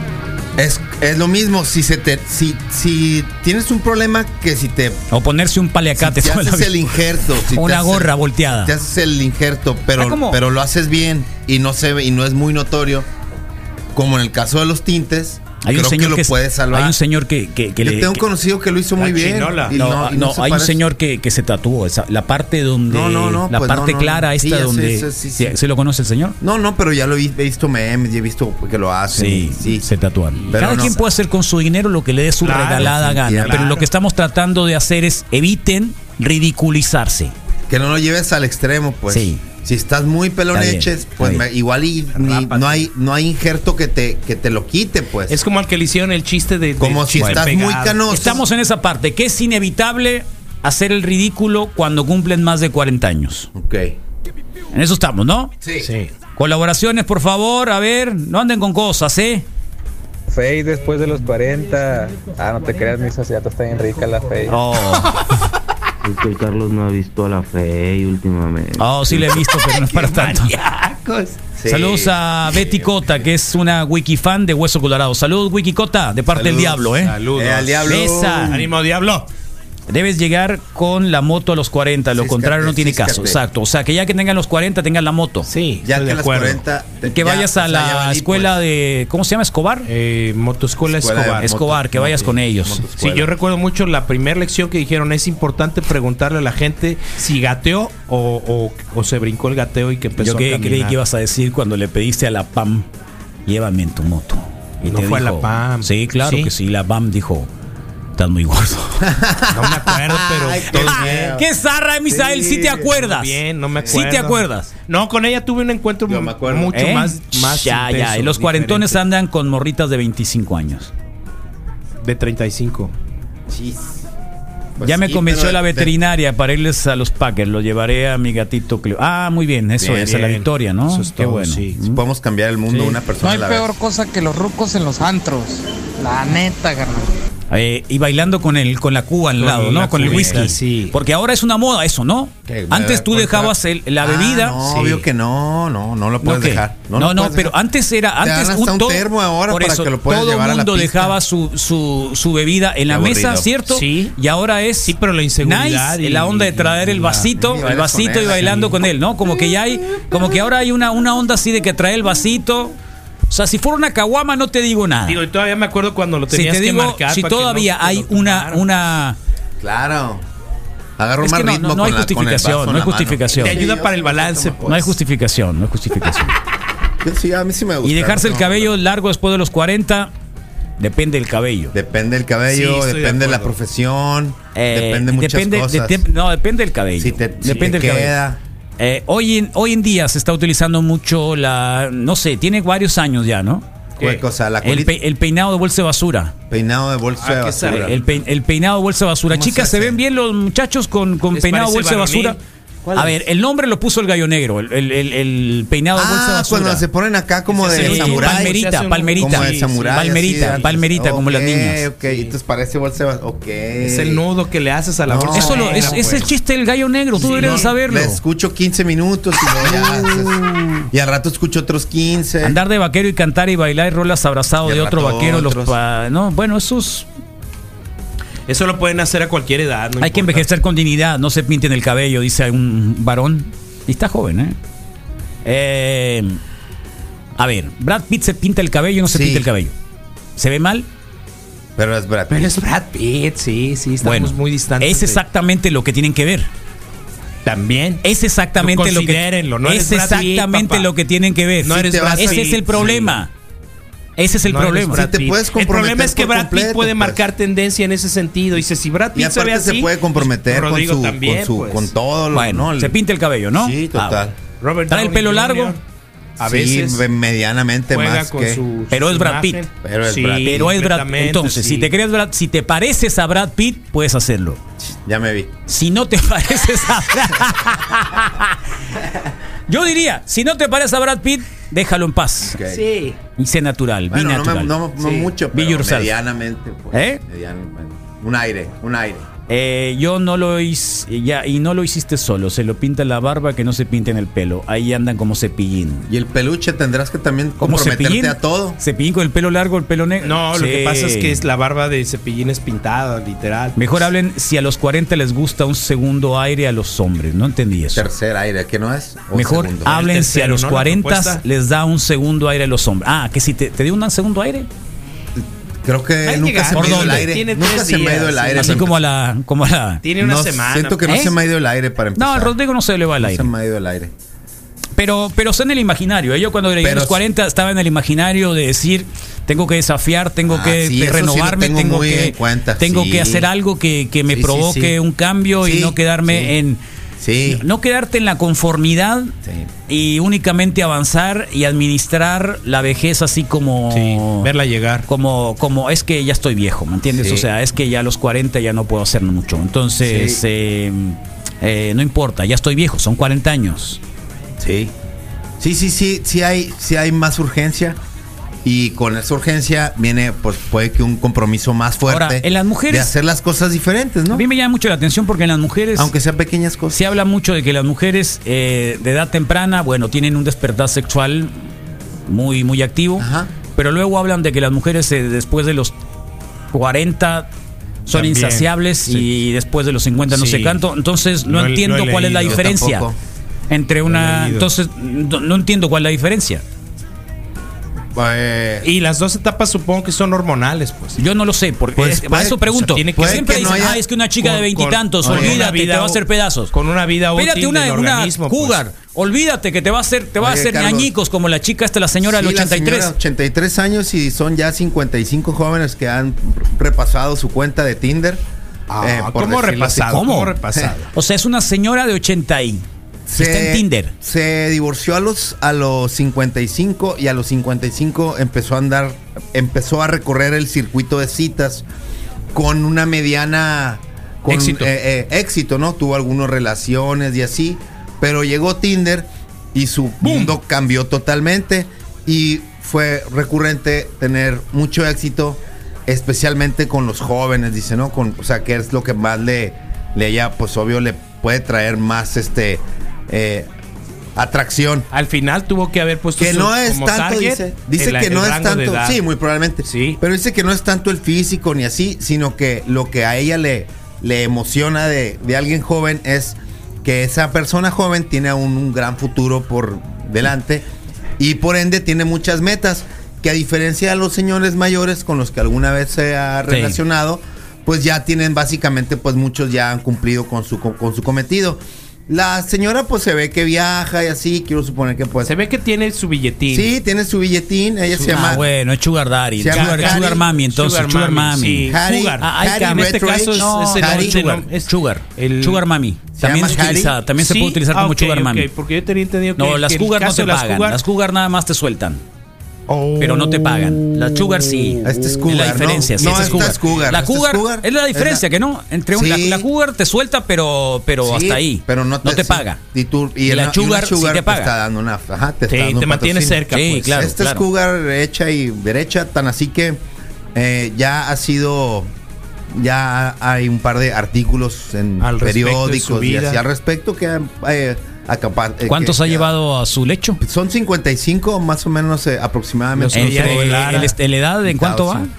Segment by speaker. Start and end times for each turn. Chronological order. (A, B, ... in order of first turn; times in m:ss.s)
0:00.6-0:05.0 A
0:05.1-0:06.8 B
0:06.0-0:13.1 A
0:07.4-0:08.7 B
0:10.0-0:10.4 B
0:13.9-0:17.0 A
0:15.6-0:18.2 B
0:17.8-0:20.8 A
0:19.0-0:19.8 C
0:19.7-0:26.4 B
0:22.9-0:25.6 A
0:26.4-0:29.9 A
0:29.2-0:37.3 B
0:30.4-0:30.9 C
0:30.5-0:31.0 A
0:32.4-0:33.9 C
0:32.7-0:33.8 A
0:37.7-0:45.4 A
0:39.1-0:39.4 B
0:40.5-0:41.4 B
0:42.2-0:42.9 C
0:45.3-0:48.4 C
0:46.8-0:48.4 A
0:47.2-0:47.5 B
0:48.1-0:53.5 B
0:53.5-0:54.0 A
0:54.7-0:55.5 B
0:55.6-0:55.9 A
0:55.8-0:56.1 C
0:56.4-0:59.4 B
1:00.3-1:04.6 D
1:04.5-1:05.2 B
1:06.0-1:09.4 E
1:08.8-1:10.5 B
1:09.5-1:11.4 C
1:11.6-1:13.3 A
1:11.7-1:17.1 B
1:16.3-1:18.6 A
1:17.0-1:17.9 C
1:17.8-1:18.6 B
1:18.5-1:19.3 C
1:19.9-1:25.5 B
1:22.2-1:23.4 A
1:25.5-1:26.6 C
1:25.8-1:28.6 A
1:27.0-1:29.9 B
1:29.8-1:31.5 C
1:30.9-1:33.3 A
1:31.4-1:32.8 B
1:33.0-1:41.0 C
1:40.2-1:42.9 B
1:43.5-1:47.5 B
1:44.8-1:46.5 C
1:48.2-1:49.1 B
1:49.0-1:51.5 A
1:49.5-1:51.4 C
1:50.9-1:54.7 B
1:52.1-1:52.9 A
1:52.8-1:59.0 C
1:53.8-1:54.1 A
1:56.1-1:56.8 A
1:56.7-2:00.9 B
2:02.0-2:02.9 C
2:03.5-2:04.1 A
2:04.8-2:05.9 A
2:04.8-2:11.9 B
2:09.8-2:10.1 A
2:10.0-2:11.8 C
2:11.8-2:13.7 A
2:13.2-2:17.1 F
2:17.5-2:24.6 B
2:19.4-2:21.0 C
2:20.0-2:20.5 A
2:22.5-2:27.6 A
2:24.6-2:25.0 C
2:26.2-2:42.8 B
2:28.2-2:31.2 A
2:32.9-2:33.5 A
2:33.7-2:34.2 C
2:34.8-2:37.3 C
2:37.4-2:38.8 A
2:43.3-2:45.2 B
2:45.1-2:48.6 C
2:46.3-2:49.2 B
2:49.6-2:50.2 A
2:51.0-2:54.9 A
2:51.2-2:53.6 B
2:53.3-2:54.9 C
2:54.7-2:56.3 B
2:57.0-2:58.8 A
2:57.8-3:00.1 B
3:00.8-3:01.7 B
3:01.7-3:06.0 A
3:02.5-3:03.5 C
3:04.6-3:08.2 B
3:07.0-3:08.4 A
3:08.8-3:13.7 B
3:14.0-3:14.9 A
3:14.6-3:16.3 B
3:16.5-3:18.0 A
3:17.2-3:18.0 C
3:17.7-3:22.4 B
3:19.3-3:20.0 A
3:21.3-3:22.4 C
3:22.8-3:23.2 A
3:23.0-3:26.8 B
3:25.9-3:28.6 A
3:27.5-3:30.7 C
3:27.7-3:31.8 B
3:29.2-3:34.2 A
3:32.0-3:32.3 C
3:33.8-3:36.3 C
3:35.1-3:36.2 A
3:35.3-3:38.2 B
3:37.2-3:37.7 C
3:37.2-3:40.4 A
3:39.7-3:40.8 B
3:40.9-3:42.6 A
3:42.4-3:47.1 B
3:44.6-3:45.8 A
3:48.5-3:50.5 C
3:50.0-3:54.6 B
3:55.4-3:56.4 B
3:57.4-3:59.7 B
3:59.1-3:59.5 A
4:00.4-4:00.9 B
4:01.8-4:02.6 A
4:02.3-4:05.2 C
4:04.0-4:06.5 B
4:07.4-4:10.9 C
4:08.0-4:13.3 B
4:11.6-4:13.0 C
4:11.7-4:13.1 A
4:14.2-4:15.0 B
4:14.5-4:21.9 C
4:14.9-4:17.2 A
4:19.2-4:23.0 A
4:22.3-4:24.2 B
4:23.5-4:24.4 A
4:24.6-4:25.8 C
4:24.9-4:25.8 B
4:26.4-4:27.0 C
4:26.4-4:28.6 A
4:27.9-4:31.9 C
4:28.9-4:29.6 B
4:29.8-4:30.7 A
4:30.4-4:34.6 B
4:34.8-4:35.5 A
4:35.7-4:38.6 B
4:39.7-4:42.6 B
4:42.4-4:42.8 A
4:42.7-4:43.2 C
4:43.4-4:44.7 B
4:44.1-4:49.3 A
4:45.0-4:45.3 C
4:45.5-4:46.1 B
4:46.9-4:47.2 B
4:49.5-4:56.1 B
4:56.1-4:58.8 A
4:57.6-5:01.4 B
5:00.2-5:04.0 C
5:03.8-5:08.1 B
5:07.9-5:10.0 A
5:09.3-5:14.7 B
5:09.9-5:11.4 C
5:15.4-5:19.0 A
5:16.2-5:18.9 C
5:16.8-5:17.3 B
5:18.6-5:20.0 B
5:20.0-5:21.1 C
5:20.2-5:22.6 A
5:21.1-5:21.3 B
5:22.2-5:23.5 B
5:23.2-5:24.1 A
5:25.0-5:36.8 B
5:26.8-5:27.2 A
5:30.5-5:33.5 A
5:34.3-5:35.0 A
5:35.6-5:36.6 A
5:37.2-5:37.6 A
5:37.5-5:39.4 B
5:39.4-5:39.7 A
5:39.9-5:44.5 B
5:43.9-5:45.1 C
5:45.1-5:54.0 B
5:47.1-5:47.5 A
5:50.0-5:50.4 A
5:54.6-5:54.9 A
5:55.6-5:58.0 A
5:58.6-6:04.4 A
6:02.1-6:03.1 B
6:04.3-6:06.1 B
6:06.0-6:07.0 A
6:06.9-6:11.6 B
6:12.3-6:16.0 B
6:13.2-6:13.5 A
6:16.7-6:17.5 B
6:18.1-6:23.1 B
6:18.1-6:19.2 C
6:20.3-6:20.8 C
6:21.5-6:22.7 C
6:22.4-6:23.2 A
6:23.7-6:26.6 B
6:24.1-6:24.7 C
6:28.2-6:28.9 A
6:28.8-6:31.2 C
6:31.2-6:36.7 B
6:32.0-6:34.0 A
6:32.8-6:38.8 C
6:35.2-6:35.6 A
6:37.4-6:43.1 B
6:40.4-6:41.1 A
6:42.2-6:48.4 A
6:48.9-6:51.1 C
6:49.0-6:50.2 A
6:50.1-6:50.6 B
6:51.1-6:52.8 B
6:53.3-7:01.9 A
6:53.4-6:54.1 B
7:02.5-7:23.7 A
7:04.5-7:04.9 C
7:10.2-7:10.6 C
7:24.4-7:25.1 A
7:25.1-7:29.2 C
7:26.4-7:40.9 A
7:29.9-7:30.2 C
7:41.4-7:55.5 A
7:46.7-7:47.0 B
7:55.4-7:56.9 C
7:56.7-7:58.6 A
7:58.2-8:08.7 B
7:59.6-8:00.4 A
7:59.7-8:05.8 C
8:01.8-8:04.4 A
8:06.4-8:07.2 A
8:07.4-8:11.0 C
8:09.6-8:12.2 B
8:12.9-8:14.1 C
8:13.2-8:22.8 B
8:15.0-8:18.4 A
8:16.2-8:17.0 C
8:19.1-8:19.7 A
8:21.2-8:30.0 A
8:23.4-8:24.7 B
8:25.7-8:27.2 C
8:26.7-8:27.6 B
8:30.6-8:32.1 A
8:32.7-8:39.5 A
8:35.2-8:36.6 C
8:38.9-8:40.4 B
8:40.4-8:44.1 A
8:43.0-8:44.2 C
8:43.1-8:45.3 B
8:44.6-8:45.3 A